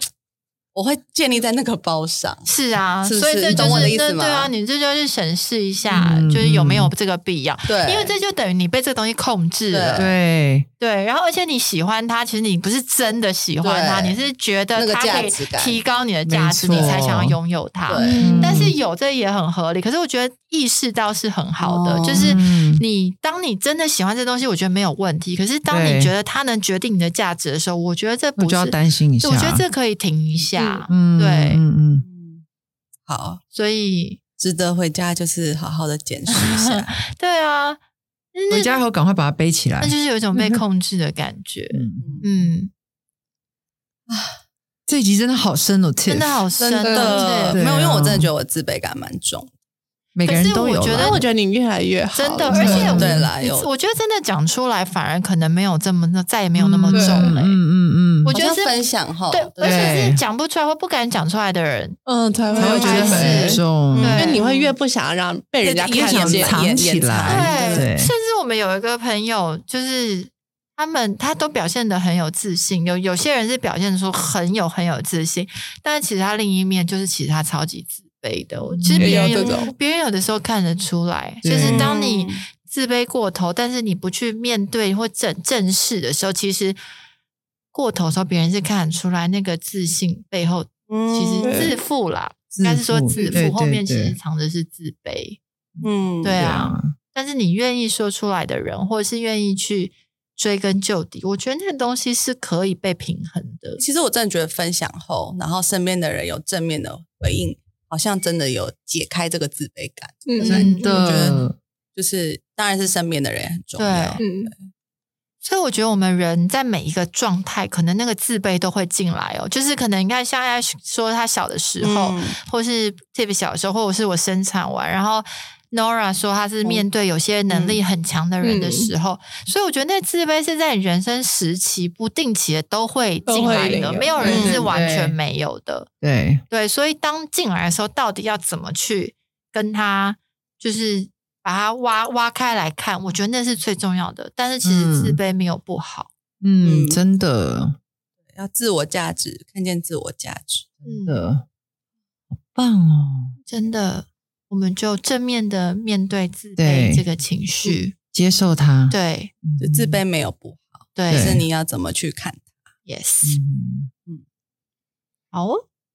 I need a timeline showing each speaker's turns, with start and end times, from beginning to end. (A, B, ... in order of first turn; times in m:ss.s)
0:00.7-0:04.5 A
0:02.4-0:10.1 B
0:05.9-0:06.9 C
0:07.7-0:08.1 A
0:09.7-0:10.1 A
0:10.0-0:10.7 C
0:10.8-0:31.6 B
0:13.6-0:14.2 A
0:14.7-0:15.8 A
0:16.2-0:17.4 C
0:16.7-0:17.0 A
0:17.9-0:18.3 A
0:18.0-0:18.6 D
0:18.2-0:18.8 C
0:21.6-0:22.3 A
0:22.1-0:22.8 C
0:25.7-0:26.1 C
0:28.4-0:29.6 C
0:30.9-0:32.0 C
0:32.0-0:32.4 A
0:33.1-0:33.4 A
0:33.5-0:34.2 B
0:34.4-0:37.0 A
0:36.3-0:37.8 B
0:38.3-0:38.8 B
0:38.5-0:40.6 C
0:39.8-0:42.7 B
0:41.7-0:42.4 C
0:42.0-0:42.2 A
0:44.1-0:44.4 A
0:44.9-0:46.4 C
0:46.1-0:47.6 B
0:46.6-0:49.5 A
0:46.8-0:47.4 D
0:47.5-0:48.3 C
0:50.1-0:51.2 C
0:50.2-0:51.2 B
0:50.9-0:53.1 D
0:52.1-0:57.6 B
0:52.5-0:53.3 C
0:52.6-0:53.7 A
0:56.6-0:58.4 C
0:56.9-0:57.4 D
0:58.2-0:58.8 B
0:58.3-1:00.0 A
0:59.3-1:02.0 B
0:59.6-1:00.2 C
1:02.0-1:07.6 D
1:02.5-1:04.4 B
1:02.6-1:04.2 C
1:02.9-1:03.2 A
1:03.9-1:04.7 A
1:05.6-1:07.8 A
1:05.9-1:08.1 C
1:07.2-1:26.8 B
1:18.7-1:19.3 C
1:19.0-1:19.7 D
1:19.1-1:19.6 A
1:21.4-1:21.9 C
1:21.6-1:22.4 A
1:27.7-1:35.4 B
1:30.9-1:31.7 A
1:31.4-1:31.7 D
1:32.5-1:34.2 C
1:35.8-1:36.6 A
1:36.2-1:43.8 B
1:36.4-1:36.9 C
1:43.8-1:51.4 A
1:50.2-1:50.7 D
1:50.4-1:51.4 B
1:50.6-1:51.6 C
1:51.9-1:54.7 A
1:53.8-1:54.2 B
1:54.2-1:54.5 D
1:55.4-2:15.9 B
2:01.8-2:02.4 A
2:07.5-2:07.8 A
2:08.4-2:08.9 D
2:13.3-2:14.5 D
2:14.2-2:15.2 C
2:14.2-2:14.7 A
2:16.0-2:16.4 C
2:16.5-2:26.1 B
2:24.6-2:25.2 C
2:26.4-2:27.8 C
2:26.6-2:27.0 A
2:28.3-2:30.8 A
2:30.8-2:31.2 B
2:31.0-2:31.4 C
2:32.5-2:33.3 C
2:33.5-2:37.9 B
2:36.6-2:37.0 C
2:38.1-2:40.0 C
2:38.9-2:39.3 B
2:39.6-2:42.5 A
2:41.0-2:41.4 B
2:41.1-2:41.4 C
2:42.8-2:43.4 B
2:43.2-2:43.9 C
2:45.3-2:45.6 B